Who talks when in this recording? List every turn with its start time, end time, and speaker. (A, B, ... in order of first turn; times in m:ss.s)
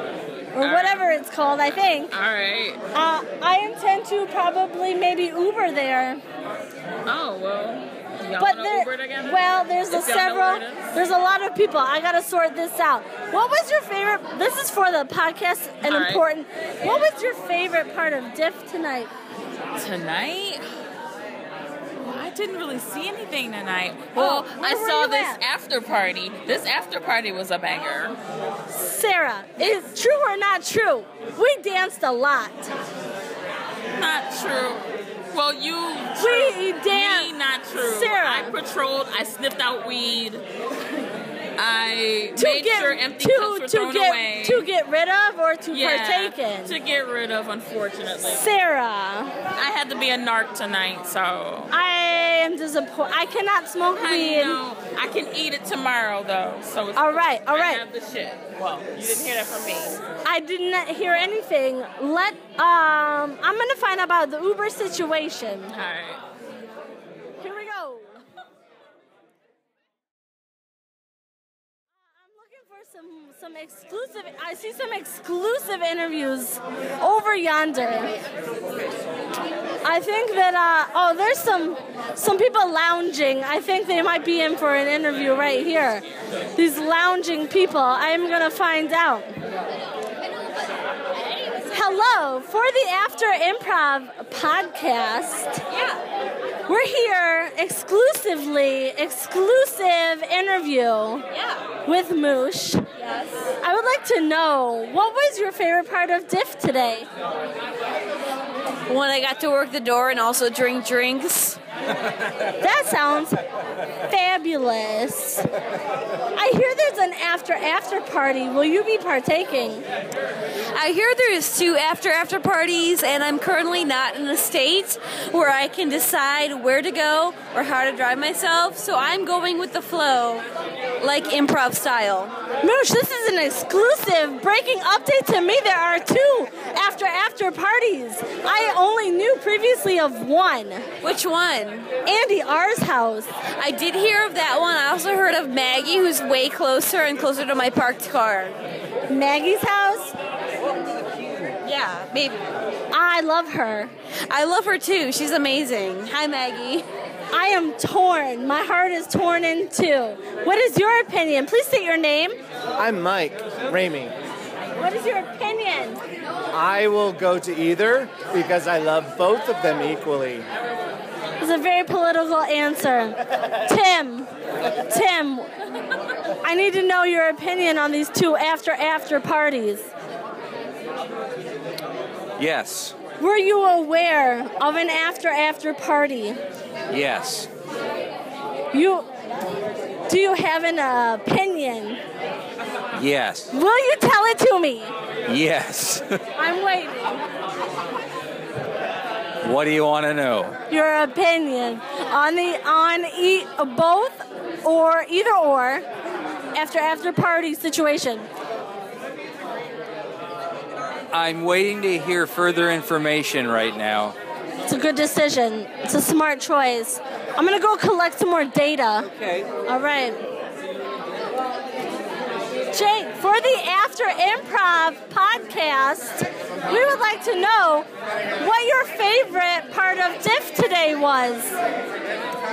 0:00.5-0:02.1 A
0:00.6-0:01.1 B
0:02.1-0:02.8 B
0:02.9-0:06.2 A
0:07.0-0:11.0 B
0:08.4-0:19.1 A
0:15.8-0:16.2 B
0:19.7-0:20.6 B
0:22.1-0:28.2 B
0:24.1-0:25.4 A
0:28.7-0:32.7 A
0:34.0-0:40.4 B
0:36.2-0:38.6 A
0:41.6-0:44.6 B
0:42.4-0:46.7 A
0:45.7-0:48.4 B
0:48.2-0:49.3 A
0:49.6-0:51.7 B
0:51.7-0:54.6 A
0:53.9-1:00.0 B
0:56.9-0:57.8 A
1:00.2-1:05.7 A
1:05.7-1:06.2 B
1:07.4-1:08.2 A
1:12.2-1:18.1 A
1:19.8-1:26.0 A
1:26.5-1:29.3 A
1:31.7-1:35.6 A
1:35.7-1:36.0 C
1:36.7-1:41.2 A
1:41.3-1:41.6 C
1:41.8-1:42.8 A
1:43.0-1:43.5 C
1:43.6-1:47.1 A
1:48.9-1:51.6 C
1:52.6-1:53.4 A
1:54.1-1:55.5 A
1:56.3-1:59.8 A
2:00.7-2:10.4 C
2:11.0-2:12.3 C
2:12.6-2:20.8 A
2:21.0-2:21.9 C
2:22.0-2:23.3 A
2:23.6-2:28.6 C
2:29.1-2:30.1 A
2:31.6-2:32.4 C
2:32.9-2:33.9 A
2:34.3-2:36.8 C
2:37.3-2:42.4 A
2:42.8-2:44.1 D
2:44.8-2:46.0 A
2:46.5-2:50.4 D
2:51.4-2:54.3 A
2:54.9-2:55.5 A
2:56.4-2:59.9 A
3:02.4-3:02.9 E
3:03.2-3:06.4 A
3:06.9-3:07.4 E
3:08.7-3:09.1 A
3:10.1-3:12.0 A
3:13.0-3:13.5 E
3:13.5-3:14.9 A
3:15.3-3:16.0 E
3:16.4-3:17.2 A
3:19.5-3:20.5 E
3:20.7-3:25.8 A
3:26.5-3:28.3 A
3:34.7-3:39.1 A
3:39.6-3:40.2 A
3:42.7-3:47.9 A
3:48.4-3:51.5 A